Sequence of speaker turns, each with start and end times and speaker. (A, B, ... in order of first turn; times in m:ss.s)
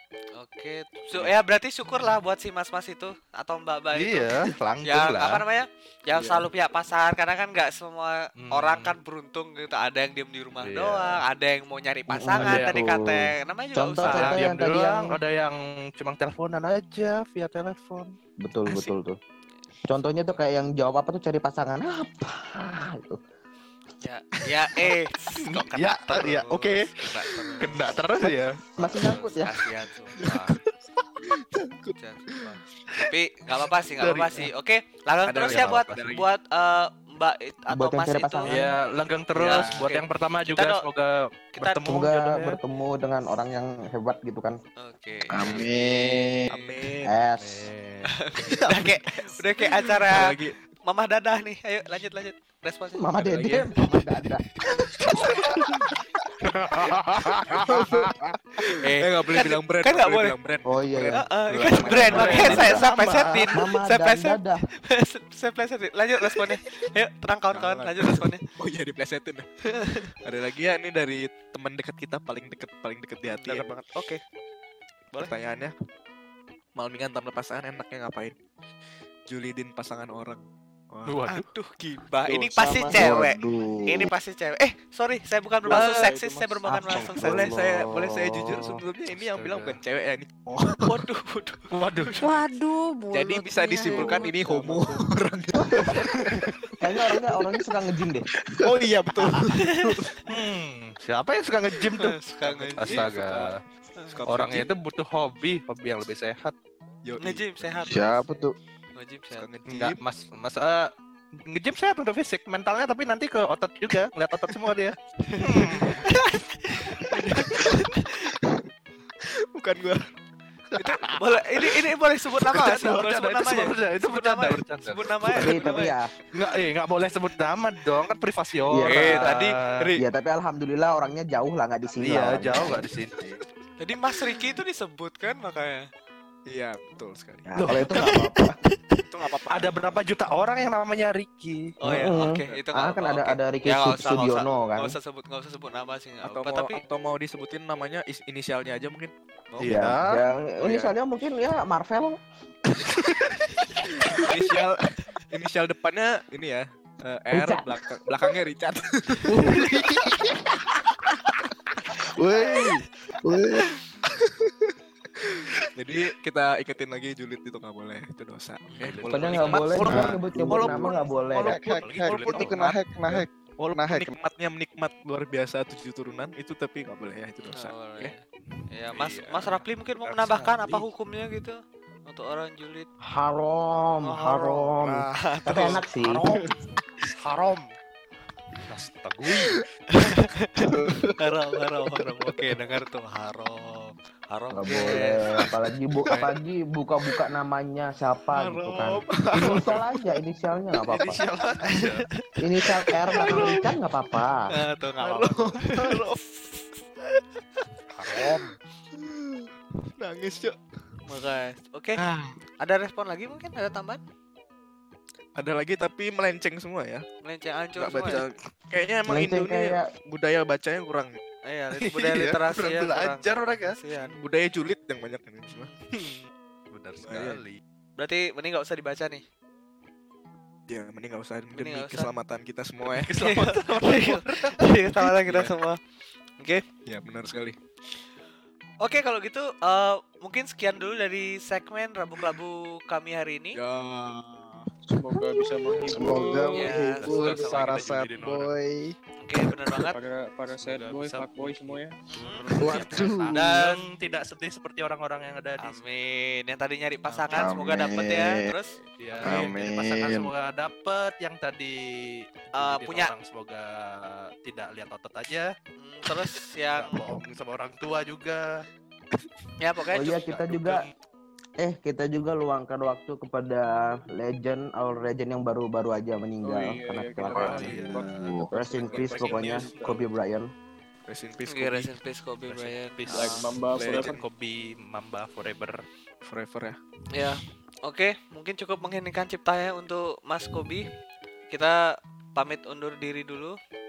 0:00.4-0:04.3 A
0:03.9-0:05.4 B
0:04.8-0:14.4 A
0:06.1-0:06.4 C
0:08.4-0:09.0 B
0:10.6-0:11.2 B
0:12.1-0:15.1 D
0:12.4-0:12.8 B
0:14.0-0:18.1 B
0:18.4-0:19.2 D
0:19.9-0:23.2 D
0:24.0-0:28.1 A
0:25.4-0:26.9 B
0:27.6-0:28.6 B
0:28.2-0:29.5 D
0:28.8-0:30.6 A
0:30.2-0:30.7 C
0:31.3-0:32.4 C
0:32.0-0:38.7 A
0:34.0-0:34.5 B
0:35.2-0:36.3 C
0:35.4-0:36.0 B
0:37.7-0:38.7 D
0:38.4-0:42.6 B
0:39.3-0:40.8 A
0:39.4-0:39.7 C
0:41.6-0:41.8 A
0:41.8-0:44.6 D
0:44.8-0:46.8 A
0:45.3-0:46.5 E
0:46.5-0:47.1 C
0:47.1-0:47.7 D
0:47.4-0:48.8 B
0:48.2-0:53.6 A
0:49.6-0:50.6 C
0:53.0-0:54.4 D
0:53.2-0:53.7 C
0:55.0-0:58.3 B
0:57.5-0:58.0 C
0:58.6-1:02.8 C
0:58.8-1:00.3 A
1:00.7-1:02.9 D
1:01.1-1:08.4 A
1:01.9-1:03.5 B
1:03.5-1:04.6 D
1:07.5-1:09.5 C
1:09.7-1:10.1 A
1:10.2-1:13.7 C
1:13.3-1:14.2 A
1:15.2-1:15.7 C
1:16.8-1:18.3 C
1:19.3-1:21.3 C
1:21.0-1:21.5 B
1:21.3-1:27.6 A
1:22.3-1:23.2 D
1:22.9-1:24.1 E
1:25.6-1:26.6 F
1:25.7-1:26.1 C
1:26.7-1:28.7 D
1:26.9-1:31.0 C
1:29.4-1:29.7 B
1:30.8-1:32.1 A
1:31.7-1:32.4 B
1:32.2-1:34.4 G
1:33.1-1:36.4 C
1:33.9-1:34.2 A
1:34.0-1:34.8 F
1:35.6-1:36.1 D
1:36.0-1:36.5 B
1:36.8-1:38.2 D
1:38.5-1:40.2 C
1:40.3-1:43.5 B
1:42.0-1:43.0 A
1:42.8-1:43.6 C
1:44.1-1:44.7 C
1:44.3-1:46.5 B
1:47.0-1:48.0 C
1:47.2-1:48.4 A
1:47.8-1:48.5 E
1:49.0-1:49.5 A
1:49.4-1:50.0 C
1:49.7-1:50.9 B
1:51.5-1:56.0 B
1:55.2-1:58.3 A
1:57.1-1:57.8 C
1:59.2-2:00.0 C
2:00.8-2:05.9 A
2:02.5-2:05.6 B
2:05.3-2:06.1 D
2:06.3-2:09.9 B
2:08.7-2:09.4 D
2:08.8-2:09.6 A
2:09.9-2:12.8 D
2:12.0-2:13.1 B
2:13.8-2:15.8 A
2:16.5-2:17.7 C
2:17.5-2:18.5 D
2:17.6-2:18.3 B
2:19.1-2:19.7 C
2:19.5-2:21.7 B
2:21.8-2:26.8 A
2:21.8-2:24.9 D
2:26.2-2:29.9 C
2:29.6-2:30.2 B
2:29.6-2:32.2 D
2:30.6-2:30.9 C
2:33.1-2:33.3 C
2:34.1-2:40.1 C
2:37.3-2:37.6 D
2:39.4-2:40.4 B
2:42.2-2:43.7 E
2:44.0-2:50.2 C
2:48.6-2:49.6 A
2:48.8-2:52.6 B
2:49.1-2:51.6 D
2:49.9-2:50.9 E
2:51.4-2:54.1 E
2:52.3-2:58.1 C
2:57.4-3:02.9 A
2:58.9-3:00.8 B
3:03.0-3:06.2 D
3:04.0-3:05.9 A
3:06.0-3:06.4 B
3:07.1-3:07.6 B
3:08.7-3:09.6 B
3:10.0-3:10.6 A
3:11.2-3:15.3 A
3:14.5-3:21.2 D
3:16.1-3:16.4 C
3:18.3-3:20.0 C
3:20.9-3:22.1 B
3:22.4-3:24.5 D
3:23.1-3:23.6 A
3:23.2-3:23.7 C
3:24.5-3:26.8 A
3:25.0-3:26.0 B
3:27.9-3:28.5 B
3:28.9-3:30.6 C
3:31.1-3:32.0 A
3:32.0-3:32.4 C
3:32.6-3:34.0 A
3:35.4-3:37.0 C
3:37.2-3:38.3 A
3:37.8-3:41.2 C
3:39.1-3:39.8 D
3:41.4-3:44.2 A
3:41.8-3:43.8 B
3:44.2-3:45.7 C
3:45.5-3:45.8 A
3:46.7-3:47.6 B
3:47.0-3:47.4 C
3:48.0-3:49.2 A
3:50.7-3:53.1 C
3:51.5-3:52.1 A
3:52.9-3:54.6 B
3:53.2-3:55.8 A
3:56.4-3:56.6 A
3:56.8-3:57.6 C
3:58.8-4:03.6 A
4:03.5-4:04.7 C
4:04.9-4:07.0 F
4:05.9-4:08.9 E
4:06.5-4:08.2 A
4:06.6-4:08.5 B
4:09.2-4:10.0 A
4:09.4-4:09.8 E
4:09.9-4:12.0 F
4:10.5-4:15.8 B
4:12.1-4:12.9 A
4:12.6-4:13.5 E
4:15.6-4:18.8 A
4:17.0-4:17.5 B
4:17.3-4:18.5 E
4:19.0-4:25.5 B
4:19.2-4:20.3 E
4:22.5-4:23.1 A
4:25.8-4:27.0 A
4:26.7-4:28.4 B
4:29.6-4:30.4 A
4:29.9-4:30.9 D
4:30.5-4:30.9 B
4:31.6-4:37.7 D
4:36.4-4:39.2 F
4:37.3-4:38.5 E
4:37.4-4:39.8 B
4:37.7-4:38.0 C
4:38.5-4:40.5 D
4:38.6-4:40.0 C
4:41.1-4:41.9 C
4:41.5-4:43.4 A
4:42.4-4:45.8 B
4:43.1-4:44.2 F
4:43.7-4:44.2 C
4:46.2-4:47.4 C
4:47.1-4:50.8 A
4:51.5-4:51.8 A
4:52.3-4:53.6 A